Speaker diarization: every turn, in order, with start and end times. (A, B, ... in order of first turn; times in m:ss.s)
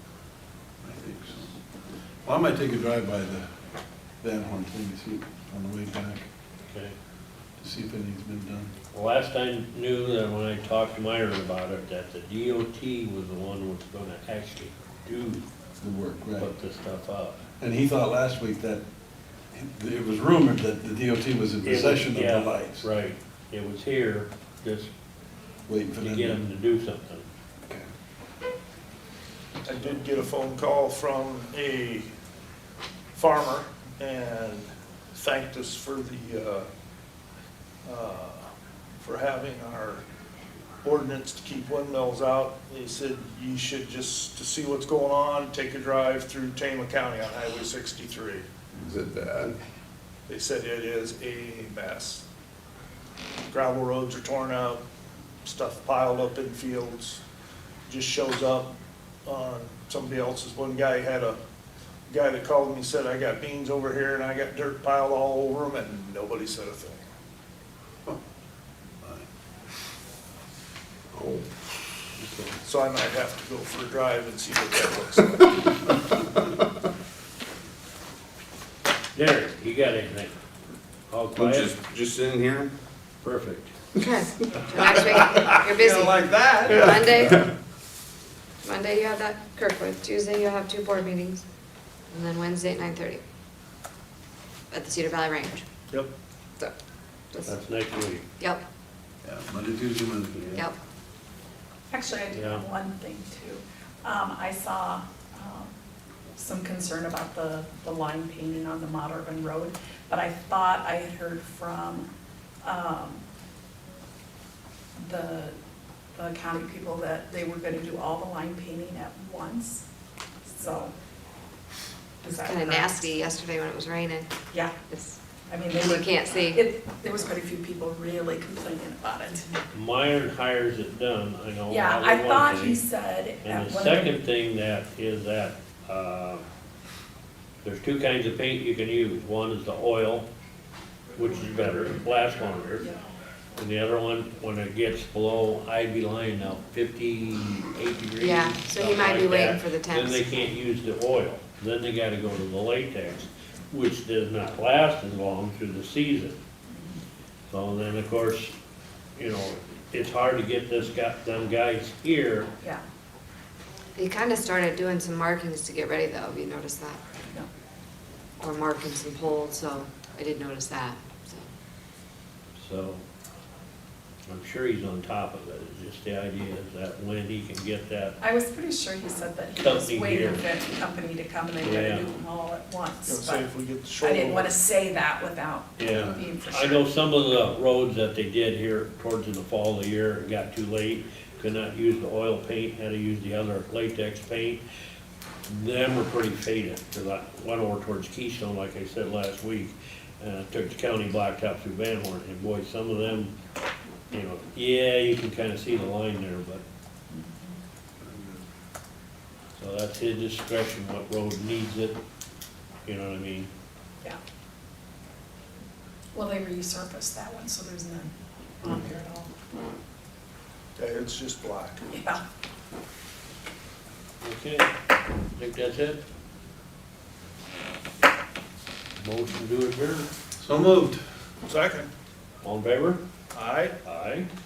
0:00.8-0:01.5 A
0:02.2-0:03.5 A
0:04.2-0:06.3 A
0:06.7-0:06.9 B
0:07.6-0:08.7 A
0:08.9-0:15.4 B
0:15.8-0:16.5 A
0:16.4-0:17.4 B
0:17.6-0:18.8 A
0:19.5-0:22.9 A
0:21.6-0:24.9 B
0:25.7-0:26.4 A
0:26.0-0:27.3 B
0:29.6-0:32.0 C
0:33.1-0:36.7 C
0:37.8-0:38.4 C
0:39.0-0:40.0 C
0:40.8-0:48.4 C
0:48.8-0:49.5 D
0:50.3-0:52.2 C
0:53.5-0:54.8 C
0:55.4-0:57.2 C
0:57.9-0:58.7 C
0:59.3-1:01.4 C
1:02.1-1:07.0 C
1:12.2-1:12.5 B
1:12.6-1:15.4 C
1:19.2-1:20.4 B
1:21.1-1:21.7 B
1:21.4-1:22.7 D
1:23.2-1:23.7 B
1:24.0-1:27.4 E
1:24.8-1:27.5 D
1:28.6-1:31.4 E
1:32.1-1:33.2 E
1:34.7-1:35.6 E
1:37.4-1:38.2 B
1:39.2-1:40.7 A
1:41.9-1:45.7 F
1:42.3-1:42.6 B
1:46.4-1:52.1 F
1:52.6-1:53.2 F
1:55.0-1:55.6 F
1:56.2-1:59.8 F
2:00.5-2:00.9 F
2:02.2-2:02.9 F
2:02.2-2:04.3 E
2:04.9-2:05.2 E
2:05.5-2:09.5 F
2:05.8-2:06.6 E
2:09.7-2:12.8 B
2:11.7-2:14.1 F
2:13.4-2:16.4 B
2:17.6-2:20.3 B
2:21.2-2:22.9 B
2:23.6-2:36.4 B
2:28.2-2:30.2 E
2:36.7-2:37.0 F
2:37.5-2:38.5 B
2:39.2-2:42.5 B
2:44.0-2:47.0 E
2:48.4-2:51.5 E
2:52.6-2:53.0 B
2:54.3-2:58.2 B
2:58.2-3:03.5 F
2:59.6-3:00.4 B
3:01.6-3:02.1 B
3:03.1-3:04.6 C
3:04.0-3:06.8 F
3:05.8-3:14.6 B
3:05.9-3:06.2 A
3:15.5-3:23.3 B
3:24.1-3:26.6 B
3:27.1-3:27.6 F
3:28.0-3:28.4 A
3:29.6-3:32.0 B
3:32.9-3:33.5 B
3:36.2-3:39.3 F
3:40.8-3:41.8 C
3:41.9-3:42.2 F
3:44.2-3:44.7 B
3:45.4-3:46.0 B
3:49.0-3:50.1 B
3:50.4-3:51.0 A
3:51.4-3:51.9 C
3:52.4-3:53.0 B
3:53.3-3:53.7 C
3:53.8-3:54.3 B